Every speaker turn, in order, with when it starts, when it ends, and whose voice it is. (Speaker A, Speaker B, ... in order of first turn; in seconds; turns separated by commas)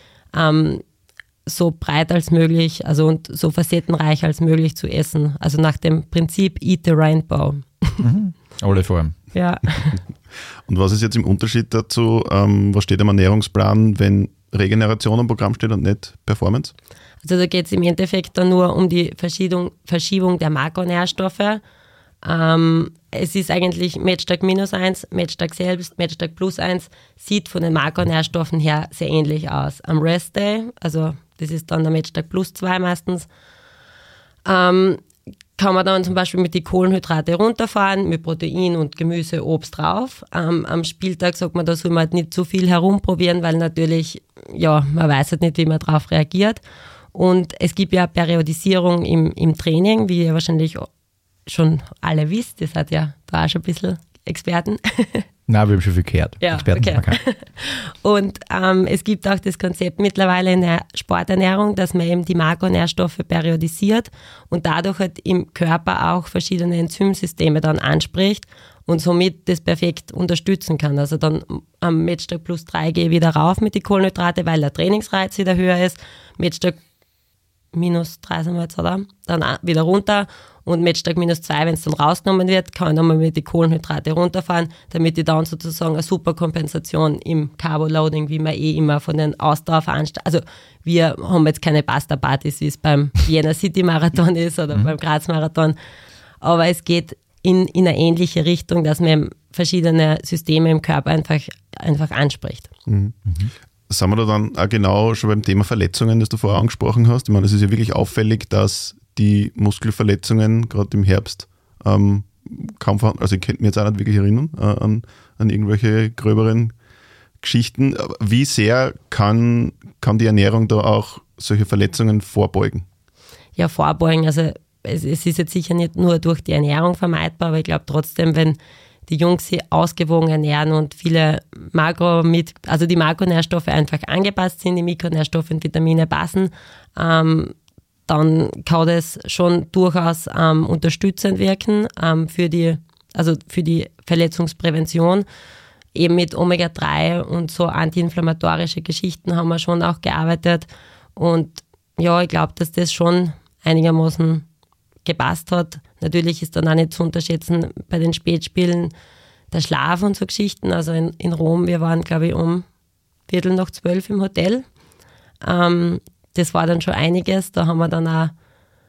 Speaker A: 0.3-0.8, Speaker A: 1.5-8.0, Speaker B: 8.0-9.2, Speaker A: 9.3-10.0, Speaker C: 10.7-16.7, Speaker A: 17.2-21.6, Speaker A: 22.2-33.3, Speaker A: 34.5-35.0, Speaker A: 35.6-46.6, Speaker A: 47.1-50.9, Speaker A: 51.5-55.3, Speaker B: 55.5-57.2, Speaker A: 56.4-76.8, Speaker A: 77.7-95.8, Speaker A: 96.4-102.7, Speaker C: 102.9-103.2, Speaker B: 103.2-103.5, Speaker C: 103.9-116.7, Speaker C: 117.4-122.8, Speaker A: 123.6-137.5, Speaker A: 138.1-145.3, Speaker A: 145.9-154.5, Speaker A: 155.1-158.9, Speaker A: 159.5-162.7, Speaker A: 163.3-164.7, Speaker A: 165.4-168.3